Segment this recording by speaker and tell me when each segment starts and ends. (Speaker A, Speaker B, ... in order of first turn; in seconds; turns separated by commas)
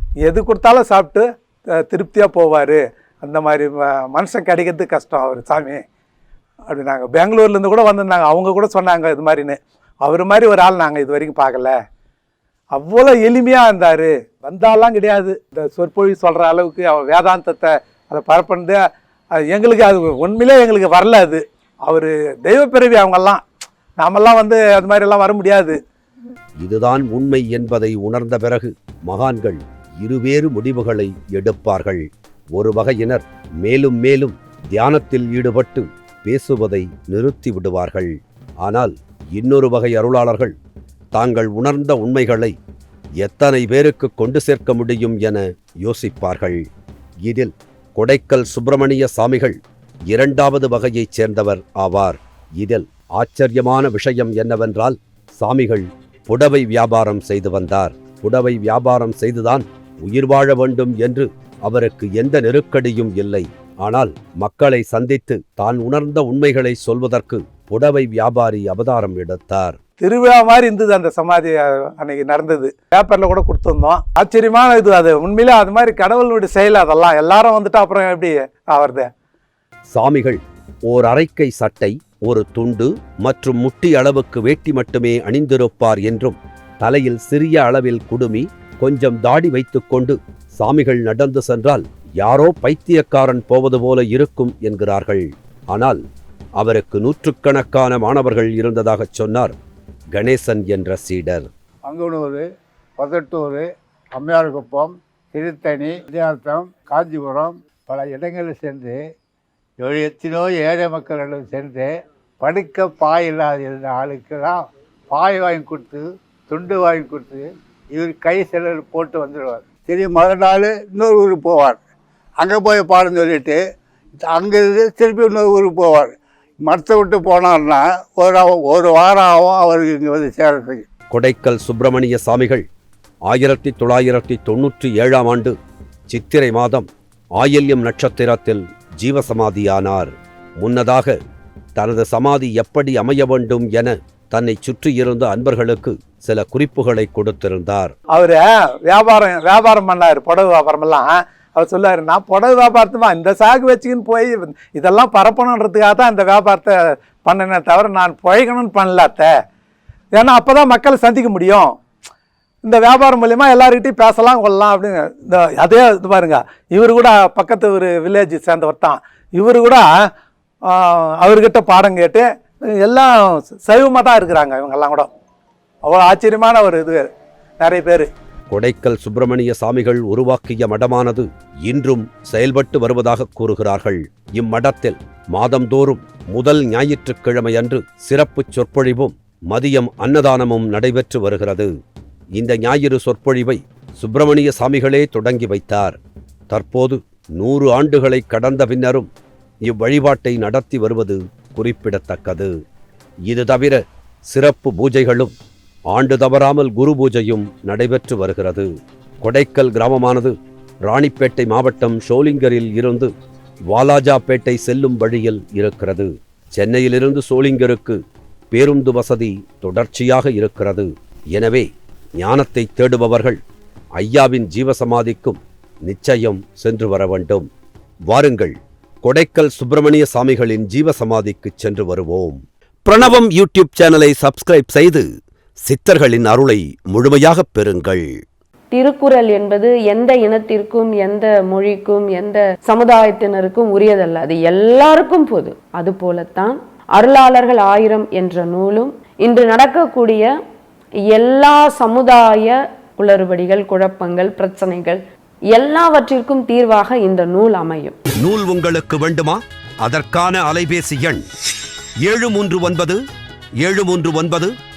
Speaker A: 0.2-5.8, Speaker A: 6.7-11.8, Speaker A: 12.7-18.8, Speaker A: 19.3-23.4, Speaker A: 24.0-25.8, Speaker B: 26.6-40.5, Speaker B: 41.1-42.5, Speaker B: 43.2-46.6, Speaker B: 47.2-49.6, Speaker B: 50.1-69.8, Speaker A: 70.0-79.1, Speaker B: 79.9-96.0, Speaker B: 96.6-99.5, Speaker B: 100.1-101.5, Speaker C: 101.8-102.4, Speaker C: 103.0-109.0, Speaker C: 109.8-111.9, Speaker C: 112.4-114.6, Speaker C: 115.1-121.8, Speaker C: 122.4-123.6, Speaker C: 124.2-126.1, Speaker C: 126.6-130.8, Speaker B: 131.1-132.6, Speaker B: 133.3-135.5, Speaker B: 136.1-141.1, Speaker B: 141.8-147.9, Speaker A: 148.1-159.3, Speaker A: 160.1-161.8, Speaker A: 162.6-169.9, Speaker A: 170.6-175.1, Speaker A: 175.8-178.1, Speaker B: 178.5-191.7, Speaker B: 192.3-196.0, Speaker B: 196.5-199.1, Speaker B: 199.6-202.5, Speaker B: 203.3-205.3, Speaker B: 205.9-208.7, Speaker B: 209.2-213.1, Speaker B: 213.7-218.0, Speaker B: 218.5-221.6, Speaker B: 222.2-223.4, Speaker B: 224.0-227.5, Speaker B: 228.1-235.1, Speaker B: 235.6-238.1, Speaker D: 238.7-250.3, Speaker D: 251.1-255.0, Speaker D: 255.5-258.0, Speaker B: 258.2-261.2, Speaker B: 262.0-263.0, Speaker B: 263.6-264.5